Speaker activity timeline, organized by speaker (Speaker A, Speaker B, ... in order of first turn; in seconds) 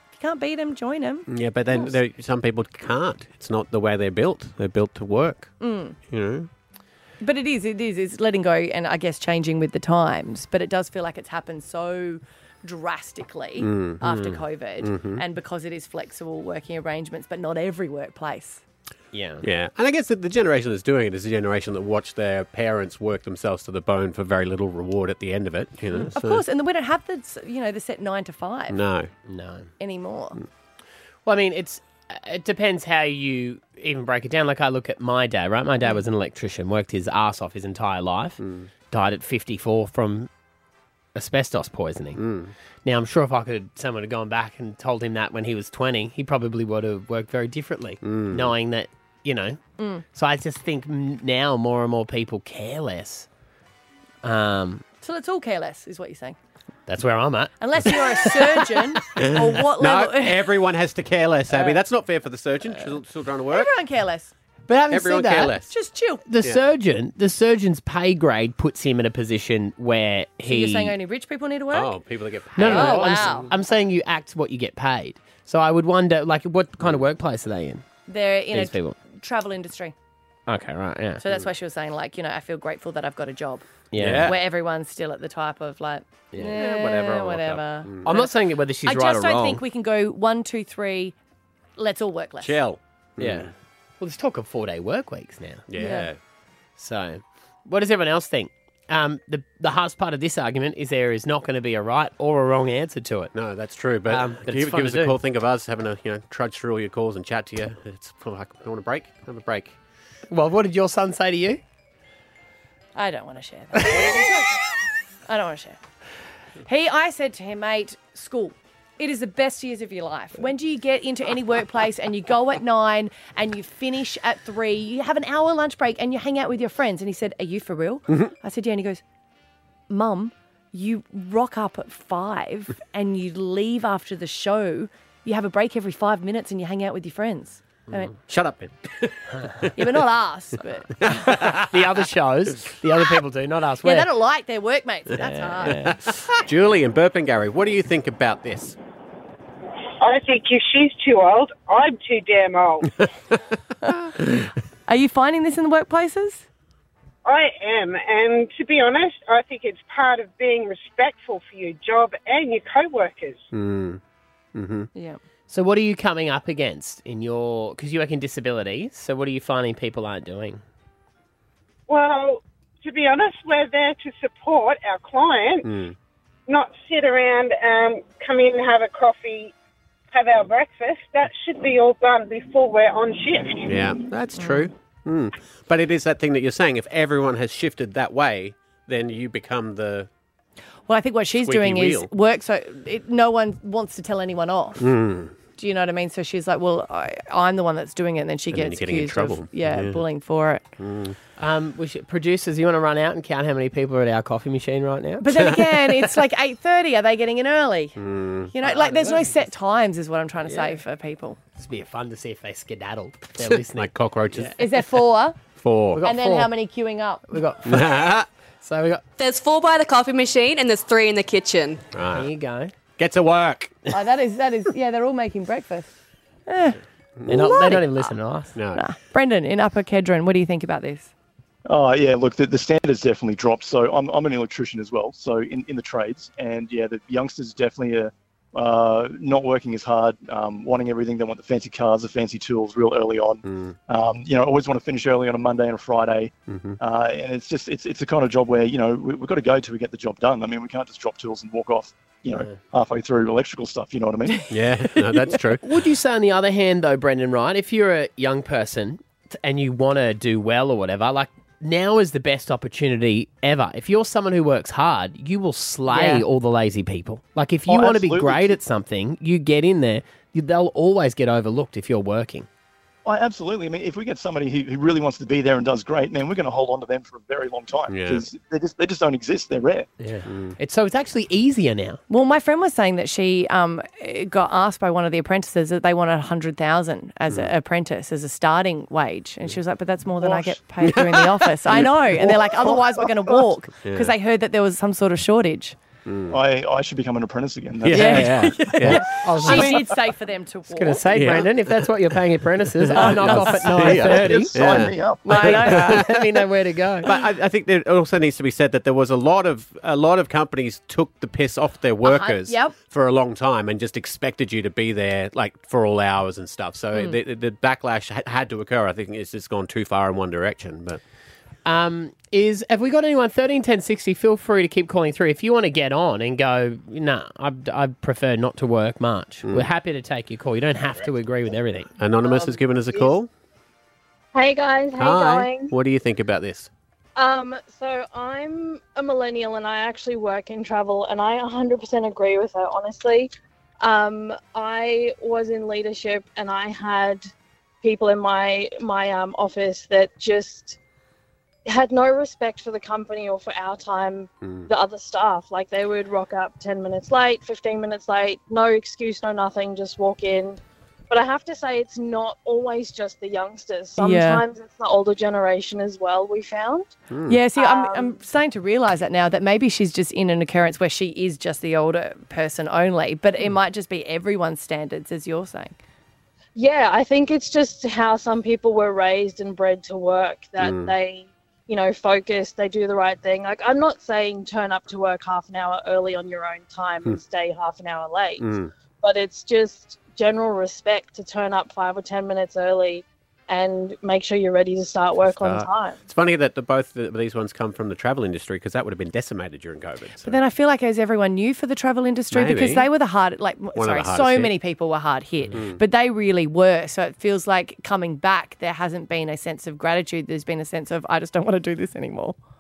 Speaker A: 0.1-1.9, 5.6-6.0, 7.2-18.6, 26.0-28.8, 29.8-30.4, 49.8-50.0, 55.0-56.4, 57.6-60.6, 61.5-61.8, 63.5-64.3, 65.7-66.2, 70.5-72.0, 72.6-73.5, 78.1-79.9, 81.2-83.7, 84.2-88.3, 88.8-91.2, 91.8-92.6, 95.8-96.1, 113.0-114.6, 115.3-115.8, 116.7-129.0, 129.9-138.1, 139.8-141.6, 143.8-145.9, 154.9-156.4, 164.9-165.2, 184.4-184.7, 190.9-194.8, 195.6-200.6, 205.2-208.0, 208.5-211.4, 214.6-215.4, 216.0-217.3, 223.9-225.9, 226.5-228.1, 228.7-231.1, 265.9-266.2, 282.1-295.8, 297.9-301.1, 302.9-304.2, 305.2-306.2, 312.0-312.7, 364.0-364.4, 367.3-375.8, 400.2-412.4
Speaker B: 1.3-5.5, 6.1-6.5, 13.6-15.2, 19.4-26.4, 28.7-29.1, 38.4-38.7, 42.2-42.5, 48.0-48.5, 59.2-63.7, 64.9-65.7, 71.7-73.5, 84.0-84.4, 86.5-88.1, 92.4-93.5, 95.7-96.2, 103.3-109.8, 138.2-140.0, 141.0-141.7, 145.7-148.8, 163.5-164.0, 164.6-164.9, 175.6-176.0, 183.7-190.1, 191.4-192.1, 194.8-195.3, 198.5-200.0, 200.8-201.2, 205.5-206.0, 208.0-208.5, 213.4-214.7, 215.6-216.0, 217.7-218.3, 221.9-222.3, 223.0-223.8, 227.2-227.7, 228.6-228.8, 243.5-243.8, 246.5-246.8, 254.5-255.6, 277.9-278.3, 280.3-280.6, 290.8-291.9, 293.8-294.1, 296.1-296.4, 297.8-299.8, 301.1-301.5, 302.8-306.1, 307.1-321.0, 332.0-333.3, 335.0-336.7, 354.4-354.7, 367.1-367.4, 380.6-380.9, 388.4-388.7, 395.2-400.4, 402.3-402.9, 403.8-404.5, 405.5-405.8
Speaker C: 19.1-19.4, 29.3-29.7, 31.3-38.4, 38.9-40.3, 41.1-42.2, 42.8-49.6, 50.1-53.3, 54.2-54.8, 56.9-58.6, 64.7-65.6, 66.3-70.9, 72.6-77.8, 78.5-79.0, 80.5-81.2, 83.9-84.3, 88.0-89.6, 93.2-95.7, 96.8-103.3, 104.1-105.2, 110.3-111.6, 141.5-144.1, 145.2-146.0, 165.5-170.6, 201.4-205.3, 208.6-209.4, 211.6-214.6, 215.9-216.5, 217.3-218.0, 218.6-219.0, 222.1-222.7, 227.3-228.5, 255.6-272.5, 280.0-282.0, 298.8-299.8, 300.7-304.5, 305.3-307.1, 321.6-331.9
Speaker D: 150.0-152.9, 157.2-163.5, 171.9-175.7, 176.5-179.5, 180.1-183.7
Speaker E: 219.2-221.8
Speaker F: 231.7-254.4, 267.7-268.6, 273.1-279.9, 290.2-290.5, 292.2-293.4, 296.3-298.5, 304.0-305.6
Speaker G: 332.3-332.6, 334.3-335.7, 337.2-347.3, 347.8-350.8, 351.7-360.6, 361.1-366.9, 367.6-368.2, 376.6-388.5, 389.0-396.0